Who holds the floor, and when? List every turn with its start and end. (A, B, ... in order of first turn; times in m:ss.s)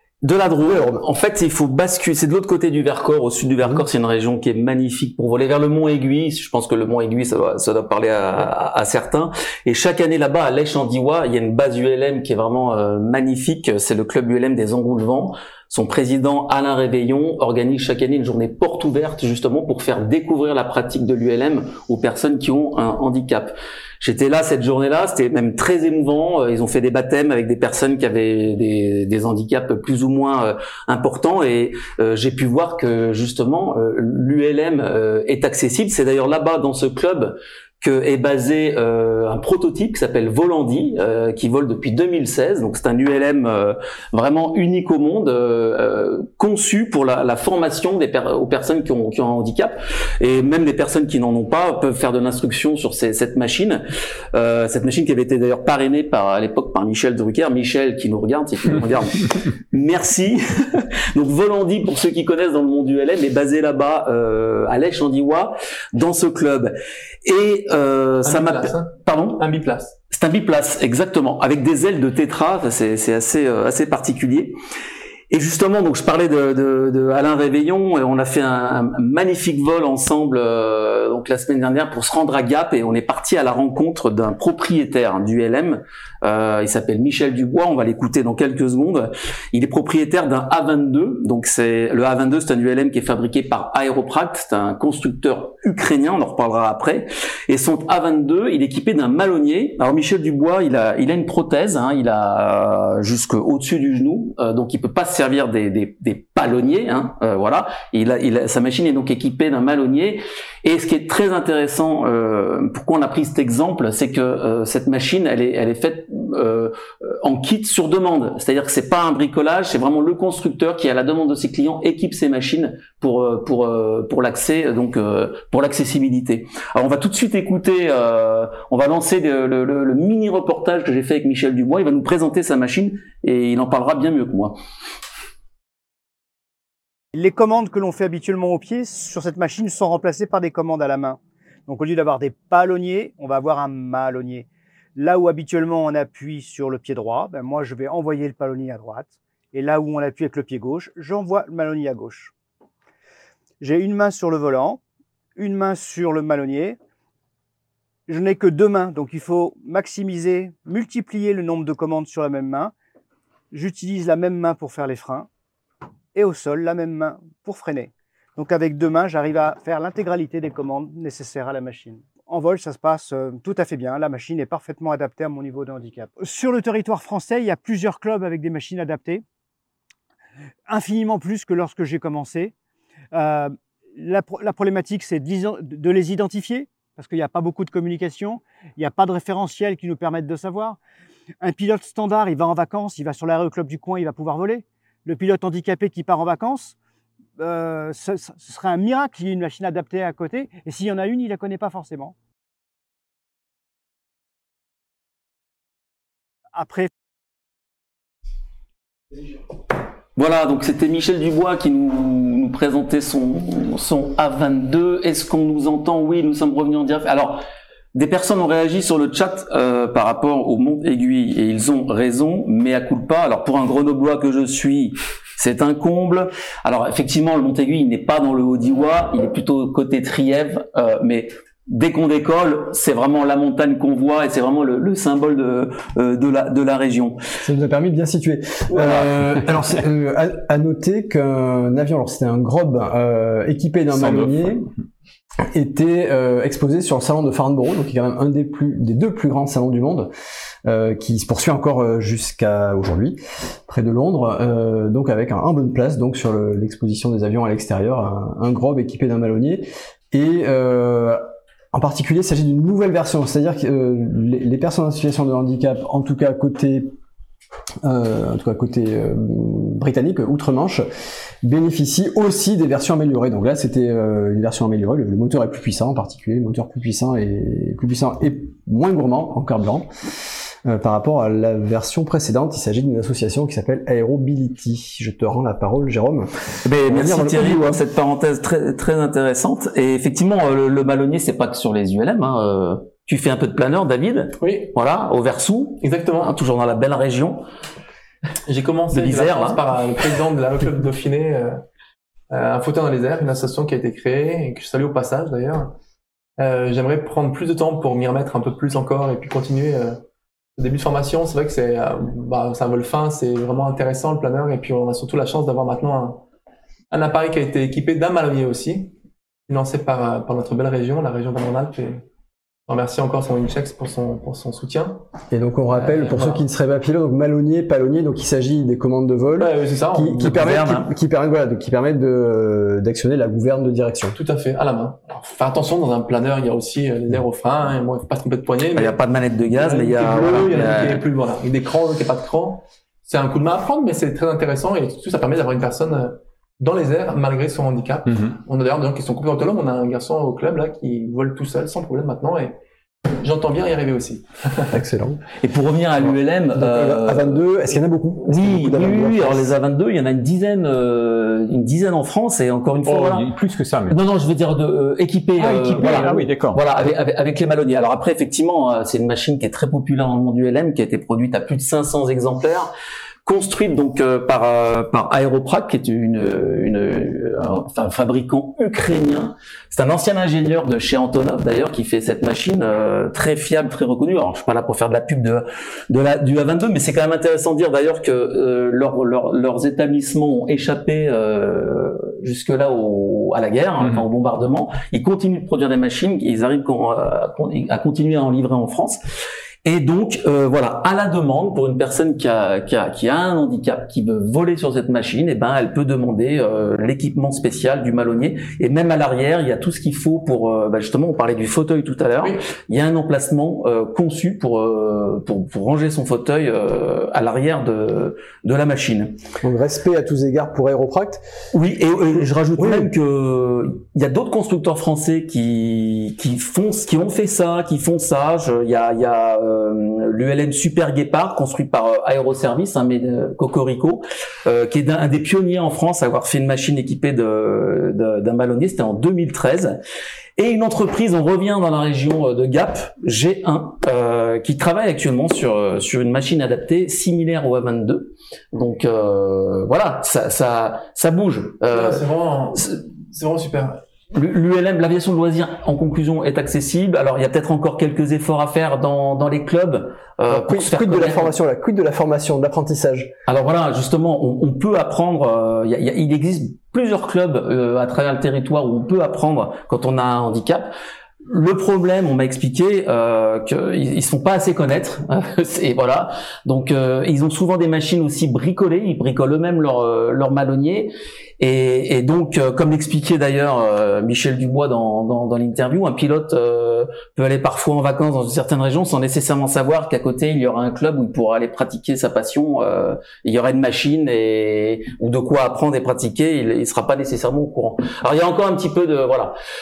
0:00.2-1:06.7 A
0:00.6-0:01.0 B
1:07.2-1:09.4 A
1:08.2-1:10.0 C
1:10.1-1:14.5 A
1:15.3-2:14.6 A
2:17.1-2:32.3 D
2:33.6-2:34.8 D
2:35.4-2:36.8 D
2:38.1-2:42.7 D
2:43.5-2:45.3 D
2:46.1-2:59.2 D
3:00.7-3:02.5 D
3:03.1-3:10.8 D
3:11.4-3:16.8 D
3:17.4-3:22.2 D
3:26.5-3:26.9 D
3:30.2-3:37.4 A
3:37.9-3:57.2 A
3:57.4-4:04.7 B
3:58.7-3:59.1 A
4:03.9-4:04.5 E
4:05.5-4:10.1 B
4:10.6-4:21.2 B
4:21.7-4:26.9 B
4:27.8-4:30.8 B
4:31.4-4:39.9 B
4:40.6-4:47.8 B
4:46.6-4:57.4 A
4:54.4-4:54.7 C
4:55.8-4:56.3 C
4:58.4-5:01.6 C
4:58.9-4:59.6 A
5:02.3-5:05.7 C
5:06.4-5:10.0 C
5:10.6-5:16.2 C
5:16.9-5:18.9 C
5:19.5-5:22.0 C
5:22.7-5:25.0 C
5:25.3-5:34.2 B
5:25.7-5:26.4 C
5:29.4-5:30.3 C
5:30.2-5:30.9 A
5:34.1-5:39.0 C
5:38.7-5:41.0 A
5:39.5-5:52.6 C
5:53.2-5:54.8 C
5:54.7-5:55.2 B
5:55.4-5:57.4 A
5:56.5-5:59.5 B
5:58.2-6:03.3 A
6:02.8-6:04.0 E
6:03.9-6:12.7 A
6:05.4-6:06.6 E
6:13.2-6:39.0 A
6:39.6-6:59.2 A
6:59.4-7:01.2 B
7:01.5-7:19.8 A
7:02.6-7:02.9 B
7:20.4-7:32.0 A
7:31.7-7:33.8 C
7:34.1-7:41.3 A
7:40.3-7:43.1 B
7:43.3-7:50.7 A
7:51.2-8:19.3 A